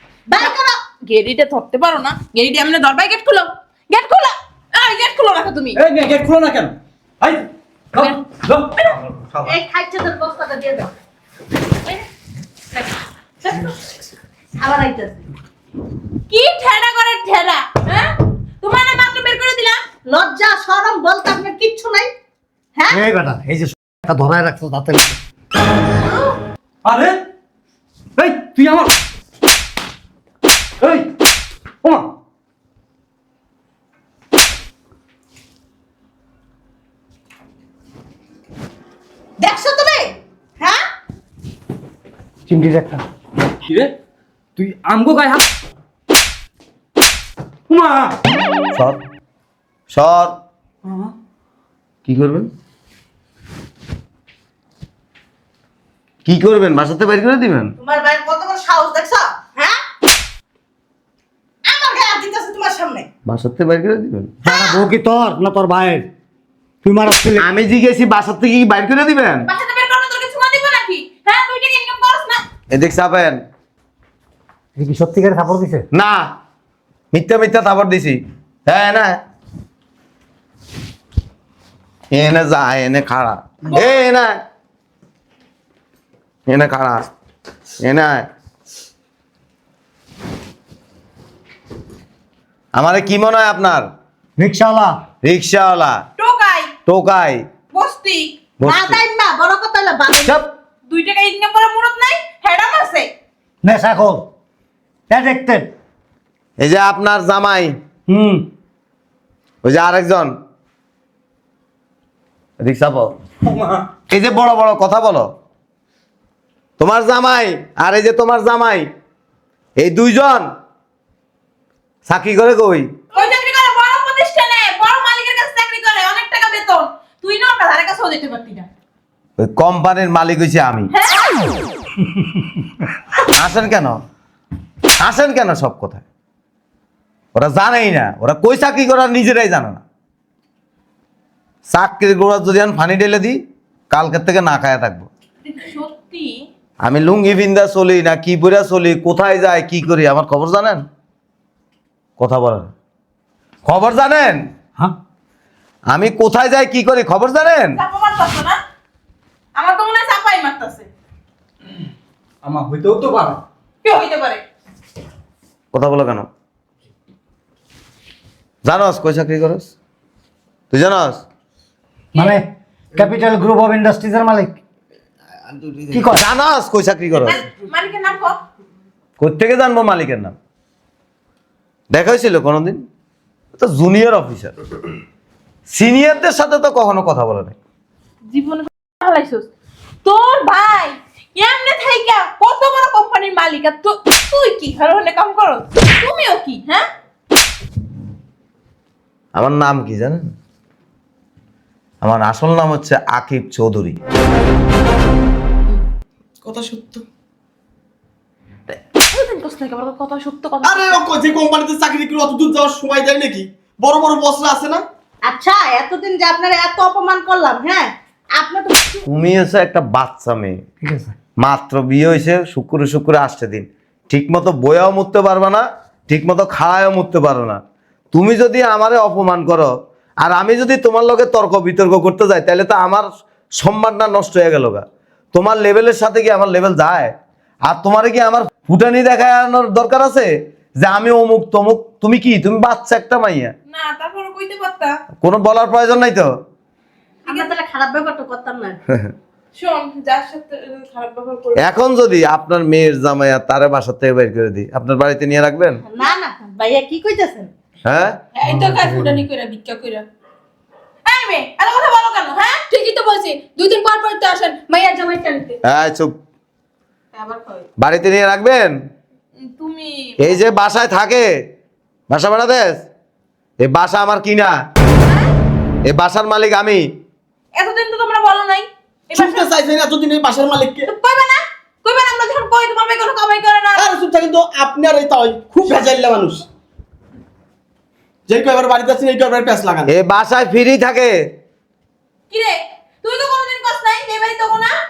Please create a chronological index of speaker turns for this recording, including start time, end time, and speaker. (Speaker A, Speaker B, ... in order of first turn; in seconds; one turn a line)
Speaker A: 0.3-0.8
Speaker B: 1.0-5.8
Speaker C: 5.8-9.6
Speaker A: 9.4-10.9
Speaker A: 13.4-13.7
Speaker A: 14.6-15.2
Speaker B: 16.3-19.8
Speaker A: 20.1-22.1
Speaker D: 22.9-25.2
Speaker C: 26.8-27.2
Speaker C: 28.2-28.9
Speaker C: 30.8-31.1
Speaker C: 31.8-32.1
Speaker A: 39.4-40.8
Speaker D: 42.5-43.0
Speaker C: 43.6-43.9
Speaker C: 44.5-45.4
Speaker C: 47.7-48.1
Speaker E: 49.9-50.3
Speaker E: 52.0-52.5
Speaker E: 56.2-57.7
Speaker A: 57.8-59.8
Speaker A: 61.6-63.1
Speaker E: 63.3-64.3
Speaker D: 64.4-66.0
Speaker A: 64.5-64.8
Speaker D: 66.8-67.5
Speaker E: 67.4-69.5
Speaker B: 69.5-72.4
Speaker E: 72.7-73.4
Speaker D: 74.8-75.8
Speaker E: 75.9-76.2
Speaker E: 77.1-79.2
Speaker E: 82.1-84.4
Speaker E: 86.5-87.0
Speaker E: 87.8-88.3
Speaker E: 92.7-93.9
Speaker D: 94.4-95.0
Speaker E: 95.2-96.0
Speaker B: 96.2-96.7
Speaker E: 96.8-97.4
Speaker B: 97.7-98.3
Speaker E: 98.6-99.0
Speaker A: 98.6-100.4
Speaker E: 100.2-100.5
Speaker B: 100.9-103.1
Speaker D: 103.6-104.2
Speaker D: 105.1-105.7
Speaker E: 106.6-107.8
Speaker D: 108.1-108.4
Speaker E: 109.6-110.3
Speaker E: 112.6-113.1
Speaker E: 114.1-115.3
Speaker E: 116.8-118.9
Speaker E: 119.8-120.5
Speaker E: 122.0-122.9
Speaker B: 123.1-128.7
Speaker E: 129.4-130.9
Speaker B: 130.9-131.5
Speaker E: 133.3-134.0
Speaker E: 135.0-136.0
Speaker E: 137.3-139.8
Speaker E: 141.7-143.4
Speaker E: 143.9-145.1
Speaker B: 145.4-146.4
Speaker E: 146.8-150.8
Speaker E: 152.2-152.7
Speaker E: 153.6-154.5
Speaker E: 155.9-157.8
Speaker B: 157.8-158.6
Speaker B: 159.6-160.9
Speaker C: 162.4-163.4
Speaker B: 163.8-164.4
Speaker E: 165.7-166.3
Speaker E: 168.6-169.7
Speaker E: 170.7-171.2
Speaker D: 172.1-174.6
Speaker E: 175.7-177.4
Speaker D: 175.9-176.2
Speaker B: 177.2-178.4
Speaker E: 179.2-180.3
Speaker E: 181.9-182.8
Speaker E: 183.6-184.5
Speaker E: 185.7-187.6
Speaker B: 188.3-189.5
Speaker B: 190.0-196.9
Speaker E: 199.3-200.3
Speaker E: 202.0-204.0
Speaker F: 206.4-207.0
Speaker B: 208.7-211.0
Speaker F: 210.6-214.8
Speaker A: 215.2-219.0
Speaker E: 219.1-220.6
Speaker D: 220.8-221.1
Speaker E: 221.4-227.6
Speaker E: 228.1-233.0
Speaker E: 233.6-237.1
Speaker E: 237.7-240.3
Speaker E: 240.8-243.5
Speaker B: 243.7-245.0
Speaker E: 245.2-246.3
Speaker A: 247.2-248.8
Speaker B: 249.6-251.7
Speaker E: 251.6-255.8
Speaker A: 255.9-257.5
Speaker E: 257.8-258.1
Speaker B: 258.4-260.0
Speaker D: 258.4-259.2
Speaker G: 258.5-259.0
Speaker B: 261.1-262.6
Speaker G: 262.8-265.5
Speaker E: 265.6-266.1
Speaker B: 267.1-267.6
Speaker E: 267.8-268.7
Speaker B: 269.4-270.4
Speaker E: 270.2-271.3
Speaker E: 272.1-272.8
Speaker E: 273.6-274.5
Speaker E: 275.9-276.9
Speaker B: 277.5-279.5
Speaker F: 279.1-280.9
Speaker B: 280.9-283.9
Speaker F: 283.8-286.4
Speaker F: 288.3-289.9
Speaker E: 289.9-291.1
Speaker B: 292.3-294.7